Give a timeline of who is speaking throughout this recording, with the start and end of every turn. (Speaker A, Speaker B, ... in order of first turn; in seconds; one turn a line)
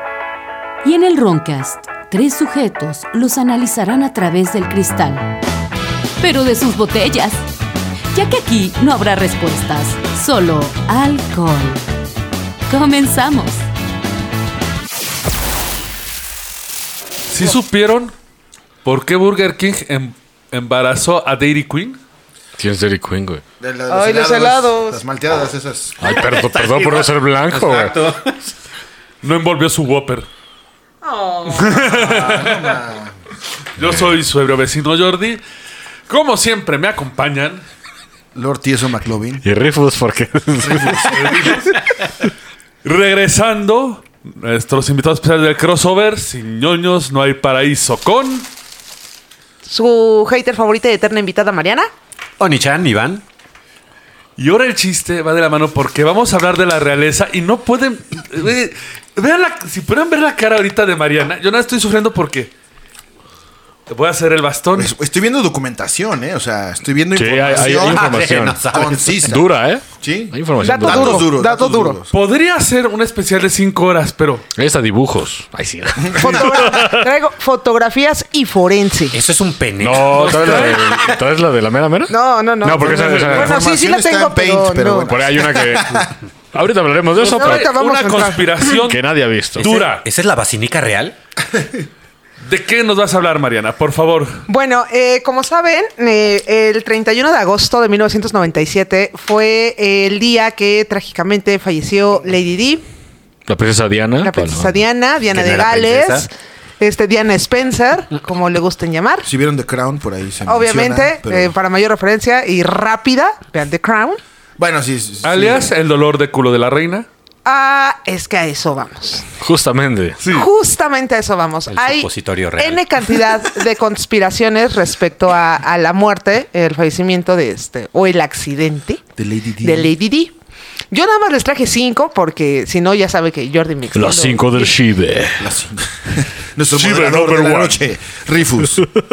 Speaker A: 0.8-5.4
Speaker A: 6.2-7.4
Speaker A: 8.1-11.8
Speaker A: 12.7-13.6
Speaker B: 17.3-18.1
Speaker B: 18.8-22.0
Speaker C: 22.6-23.4
Speaker D: 23.6-26.2
Speaker E: 23.9-25.0
Speaker C: 26.0-28.0
Speaker F: 26.1-28.4
Speaker B: 29.2-30.3
Speaker E: 31.0-31.8
Speaker B: 31.5-32.8
Speaker D: 31.7-33.1
Speaker B: 33.8-35.4
Speaker B: 36.1-37.6
Speaker D: 38.3-39.4
Speaker C: 39.4-41.6
Speaker D: 40.6-41.5
Speaker B: 41.1-41.8
Speaker B: 42.8-48.5
Speaker E: 49.7-51.9
Speaker F: 52.4-53.2
Speaker B: 54.4-62.5
Speaker B: 63.9-64.9
Speaker D: 64.8-72.1
Speaker C: 67.2-68.6
Speaker F: 67.5-69.3
Speaker C: 69.2-71.3
Speaker E: 70.6-72.0
Speaker B: 72.1-74.4
Speaker C: 74.5-77.1
Speaker D: 76.0-76.7
Speaker E: 76.2-79.2
Speaker F: 79.1-80.8
Speaker C: 79.8-83.6
Speaker B: 80.0-81.1
Speaker E: 82.1-85.2
Speaker D: 83.0-86.1
Speaker C: 85.0-87.7
Speaker B: 87.2-89.0
Speaker E: 87.2-88.6
Speaker C: 88.7-89.7
Speaker B: 89.5-90.0
Speaker F: 89.6-91.2
Speaker B: 92.4-94.4
Speaker E: 94.5-102.8
Speaker C: 103.5-104.8
Speaker E: 104.2-109.3
Speaker F: 105.3-106.2
Speaker D: 109.2-111.5
Speaker E: 110.5-114.2
Speaker D: 114.6-115.7
Speaker B: 115.2-117.1
Speaker E: 117.4-119.2
Speaker C: 119.3-120.2
Speaker B: 120.2-120.5
Speaker E: 120.2-129.0
Speaker F: 121.7-122.8
Speaker D: 129.2-129.9
Speaker E: 129.6-130.3
Speaker E: 130.9-134.8
Speaker C: 133.9-135.5
Speaker D: 135.4-138.9
Speaker B: 136.7-137.8